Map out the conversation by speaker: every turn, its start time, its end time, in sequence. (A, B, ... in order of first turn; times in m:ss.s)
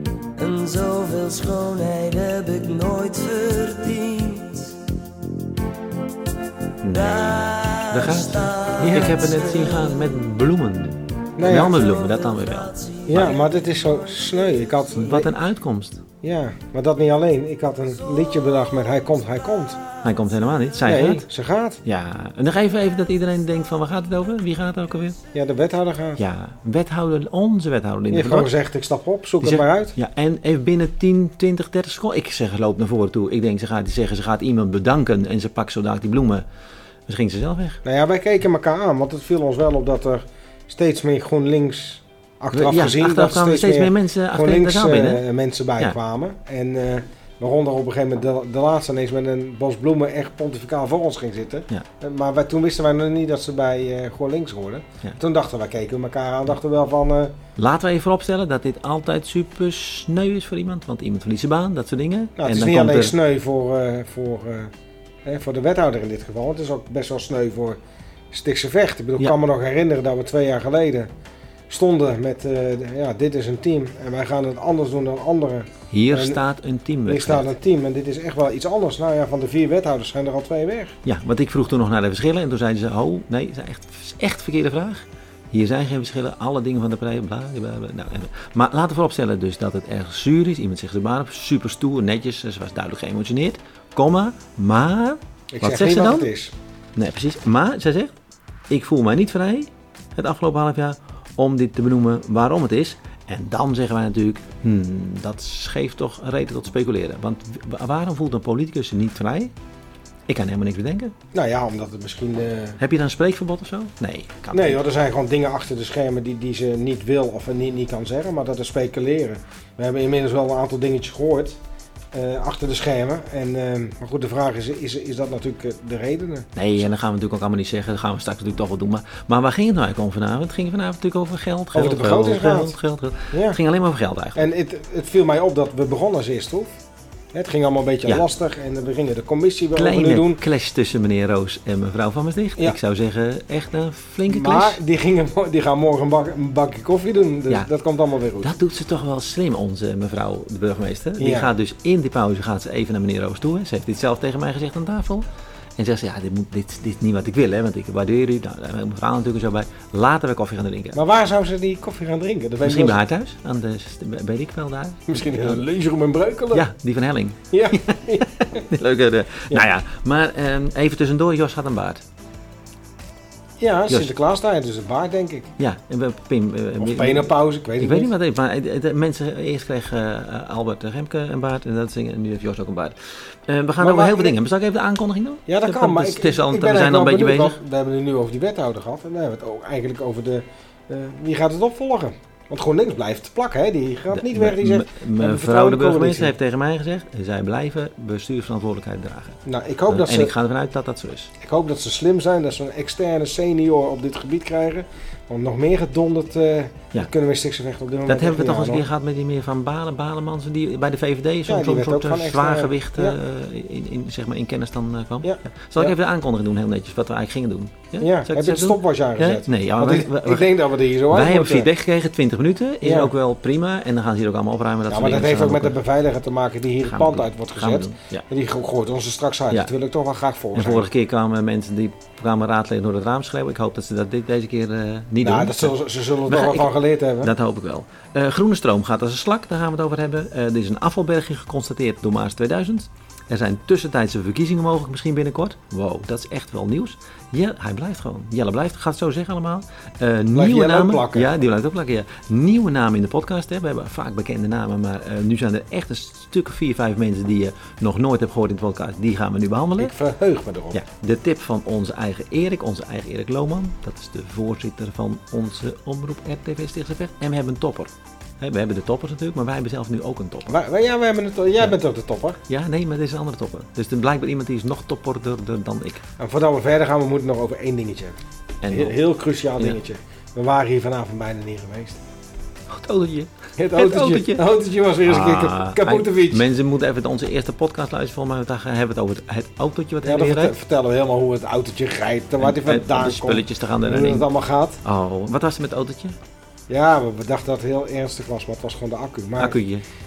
0:00.4-0:04.8 A
0:06.8-0:13.4 B
0:06.9-0:10.1 A
0:08.8-0:09.2 C
0:11.4-0:11.8 C
0:11.5-0:15.2 A
0:13.1-0:15.3 C
0:15.0-0:16.0 B
0:16.2-0:19.8 C
0:20.0-0:21.2 B
0:20.8-0:21.8 C
0:21.8-0:25.2 B
0:25.3-0:26.2 C
0:26.2-0:28.5 B
0:28.1-0:29.9 C
0:29.4-0:36.4 B
0:37.1-0:37.8 B
0:37.8-0:57.4 C
0:42.5-0:45.2 B
0:57.6-1:03.1 B
1:02.4-1:04.7 C
1:05.2-1:07.8 C
1:08.3-1:11.1 C
1:11.7-1:16.4 C
1:15.9-1:17.5 B
1:17.0-1:21.0 C
1:21.0-1:36.3 B
1:35.5-1:36.5 C
1:37.0-1:38.1 B
1:38.7-1:49.5 B
1:50.3-1:51.1 B
1:51.3-1:52.8 C
1:52.8-1:54.8 B
1:54.5-2:01.6 C
2:02.1-2:06.5 C
2:06.6-2:14.4 B
2:11.7-2:12.7 C
2:13.3-2:13.6 C
2:14.4-2:16.7 C
2:17.3-2:20.4 C
2:19.7-2:24.8 B
2:24.3-2:28.6 C
2:28.4-2:35.2 B
2:31.2-2:31.5 C
2:35.8-2:41.0 B
2:40.9-2:43.0 C
2:42.6-2:45.6 B
2:45.1-2:46.6 C
2:46.5-2:52.0 B
2:47.5-2:48.6 C
2:53.6-2:55.5 C
2:55.6-3:07.6 B
2:56.8-2:58.1 C
3:03.8-3:04.3 C
3:05.5-3:16.3 C
3:14.1-3:21.3 B
3:19.4-3:20.3 C
3:21.4-3:28.8 C
3:28.1-3:45.8 B
3:31.5-3:33.2 C
3:35.2-3:35.9 C
3:38.0-3:41.7 C
3:42.8-3:43.1 C
3:44.9-3:50.9 C
3:46.8-3:48.2 B
3:50.5-3:55.7 B
3:55.2-3:57.3 C
3:56.2-4:19.9 B
4:10.3-4:11.3 C
4:19.8-4:20.8 C
4:20.7-4:30.5 B
4:30.5-4:32.4 C
4:32.5-4:36.0 B
4:36.2-4:38.2 C
4:38.6-4:39.0 B
4:38.7-4:42.0 C
4:42.7-4:44.4 B
4:43.6-4:46.4 C
4:45.0-4:50.5 B
4:50.0-4:54.8 C
4:52.4-4:54.2 B
4:54.8-4:56.2 B
4:56.7-4:59.6 C
4:59.4-4:59.8 B